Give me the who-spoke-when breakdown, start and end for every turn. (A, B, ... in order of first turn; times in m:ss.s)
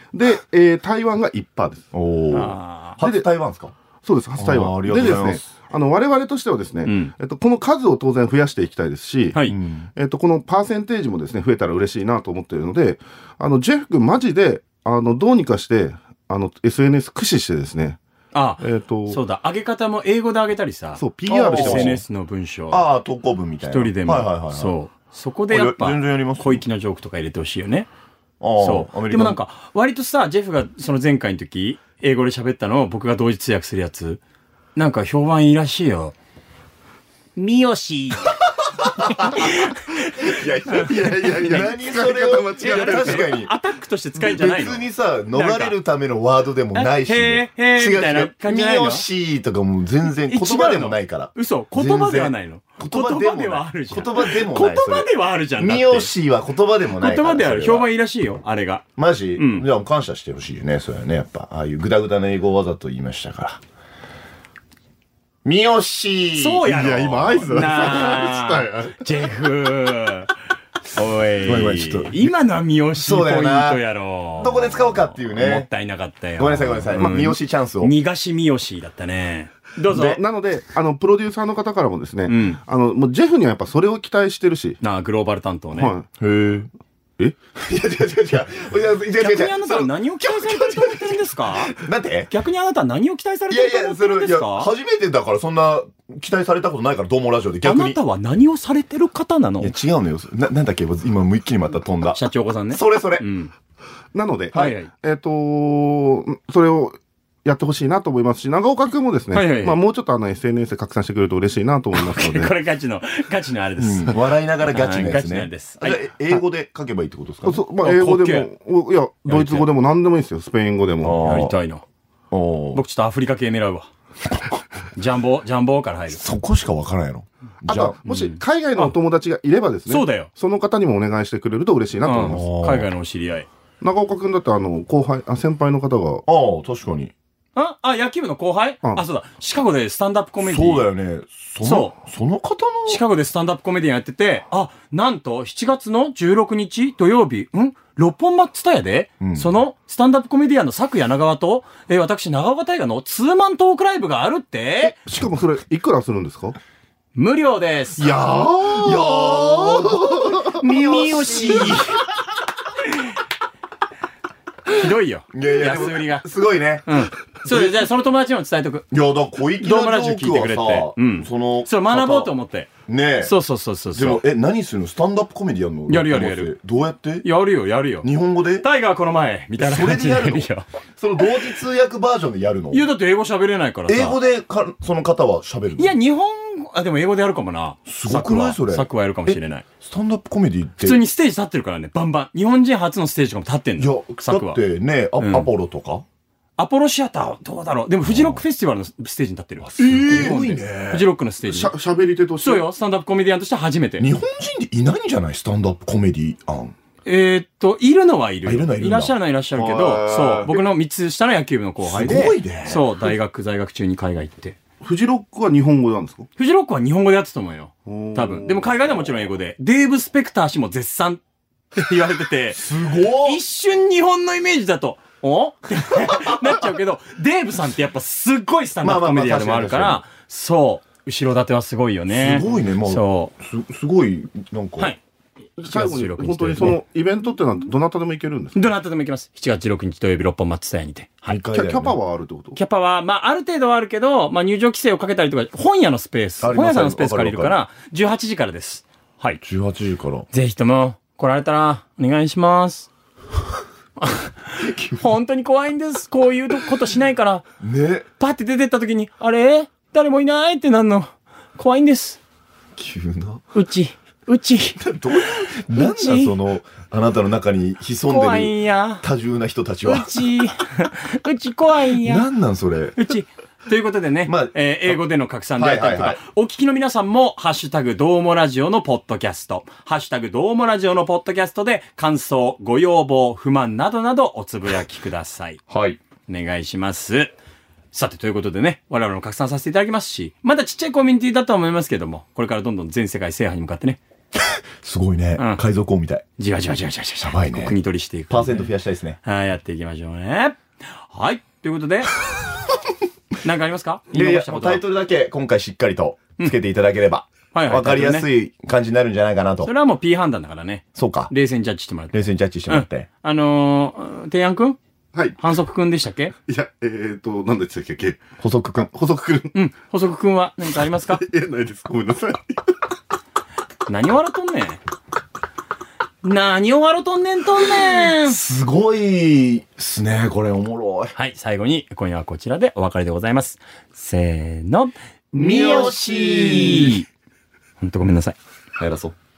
0:00.1-0:01.9 A
0:01.9-0:03.7 B
0:02.3-0:03.0 C
0:03.0-0:03.2 A
0:04.0-0:09.4 A
0:04.4-0:05.4 B
0:06.8-0:07.1 C
0:09.4-0:09.9 B
0:10.0-0:18.0 A
0:18.3-0:21.0 C
0:18.6-0:19.2 A
0:21.0-0:22.0 A
0:21.3-0:22.0 B
0:21.5-0:22.8 C
0:22.7-0:24.8 B
0:23.6-0:27.9 C
0:25.5-0:26.6 B
0:28.4-0:29.4 B
0:28.6-0:34.2 C
0:34.8-0:36.2 C
0:37.4-0:40.8 C
0:38.7-0:43.5 B
0:40.8-0:43.3 A
0:42.6-0:45.8 C
0:44.2-0:57.9 B
0:46.7-0:49.0 C
0:50.3-0:56.1 C
0:56.9-0:59.6 C
0:59.0-1:03.6 B
1:05.4-1:06.7 B
1:06.4-1:10.3 C
1:06.6-1:09.1 A
1:10.9-1:20.2 C
1:11.4-1:12.3 B
1:12.9-1:13.8 B
1:14.4-1:15.7 B
1:16.4-1:17.9 B
1:19.9-1:24.8 A
1:22.3-1:22.6 C
1:24.8-1:25.9 C
1:25.7-1:26.1 A
1:26.2-1:26.7 B
1:27.6-1:32.3 B
1:29.2-1:31.7 C
1:32.3-1:34.7 C
1:33.5-1:38.0 B
1:37.6-1:39.7 C
1:39.6-1:43.3 B
1:42.0-1:43.5 C
1:44.1-1:52.5 A
1:44.5-1:44.9 C
1:49.3-1:49.8 C
1:51.9-1:56.0 C
1:53.8-1:57.6 B
1:57.4-2:01.2 A
1:57.8-1:58.5 C
1:59.3-1:59.7 C
2:01.0-2:01.6 B
2:01.1-2:01.8 C
2:02.3-2:02.8 B
2:02.7-2:03.9 C
2:04.9-2:06.2 C
2:06.1-2:08.0 B
2:07.7-2:12.4 A
2:08.0-2:08.9 C
2:09.9-2:10.3 C
2:12.0-2:13.5 C
2:12.2-2:12.9 B
2:13.8-2:16.2 A
2:16.2-2:17.1 B
2:17.6-2:20.9 C
2:20.4-2:23.0 B
2:21.6-2:21.9 C
2:22.9-2:35.0 C
2:29.2-2:29.5 B
2:34.8-2:36.6 A
2:37.1-2:38.2 C
2:38.0-2:40.4 A
2:38.6-2:41.9 B
2:40.5-2:42.0 C
2:44.7-2:46.2 C
2:45.3-2:47.8 B
2:46.8-2:48.9 C
2:48.9-2:52.3 B
2:49.6-2:52.7 C
2:52.9-2:53.3 B
2:53.2-2:54.2 C
2:53.9-2:57.3 B
2:55.9-2:56.5 C
2:57.2-3:00.6 C
2:58.0-2:58.6 B
2:59.6-3:02.8 B
3:02.7-3:04.2 C
3:03.9-3:06.0 B
3:05.8-3:09.6 C
3:07.9-3:11.0 B
3:10.8-3:14.6 C
3:13.8-3:16.0 B
3:15.2-3:15.5 C
3:16.6-3:21.7 C
3:18.0-3:18.4 B
3:19.6-3:21.1 B
3:21.4-3:22.7 A
3:22.4-3:24.1 C
3:24.0-3:26.7 B
3:27.0-3:34.6 C
3:28.4-3:30.6 B
3:31.8-3:33.1 B
3:34.8-3:36.3 A
3:36.4-3:41.2 C
3:37.8-3:38.9 A
3:41.7-3:53.3 C
3:42.5-3:43.4 B
3:46.1-3:46.6 B
3:48.8-3:50.0 B
3:52.1-3:54.9 B
3:55.6-3:58.7 A
3:55.7-3:56.8 C
3:58.5-4:01.4 C
4:01.3-4:02.0 B
4:01.5-4:02.6 A
4:02.5-4:09.4 C
4:06.4-4:07.6 B
4:09.4-4:10.3 B
4:10.3-4:12.9 C
4:14.0-4:17.4 C
4:14.6-4:15.1 B
4:17.6-4:18.0 B
4:18.2-4:22.2 C
4:22.8-4:23.4 B
4:23.5-4:24.8 C
4:24.8-4:30.2 B
4:25.7-4:26.3 C
4:28.1-4:29.0 C
4:29.8-4:32.3 C
4:31.9-4:33.0 B
4:33.0-4:45.6 C
4:34.2-4:35.0 B
4:35.6-4:36.2 B
4:45.7-4:46.0 B
4:46.3-4:47.3 C
4:47.9-4:54.0 C
4:54.8-4:56.2 B
4:55.4-4:55.6 C
4:56.4-4:58.7 C
4:57.2-4:57.8 B
4:58.3-4:59.2 B
4:59.2-5:02.1 C
5:03.4-5:04.8 C
5:04.1-5:09.7 B
5:07.5-5:08.3 C
5:09.6-5:14.8 C
5:10.9-5:11.3 B
5:12.1-5:13.1 B
5:15.4-5:16.3 C
5:16.5-5:18.2 A
5:18.4-5:18.9 B
5:18.8-5:19.5 A
5:19.5-5:21.2 C
5:20.9-5:22.5 A
5:23.9-5:24.8 C
5:26.2-5:28.4 C
5:28.0-5:31.1 B
5:31.1-5:37.0 C
5:35.3-5:37.0 B
5:37.8-5:38.4 C
5:38.8-5:39.1 B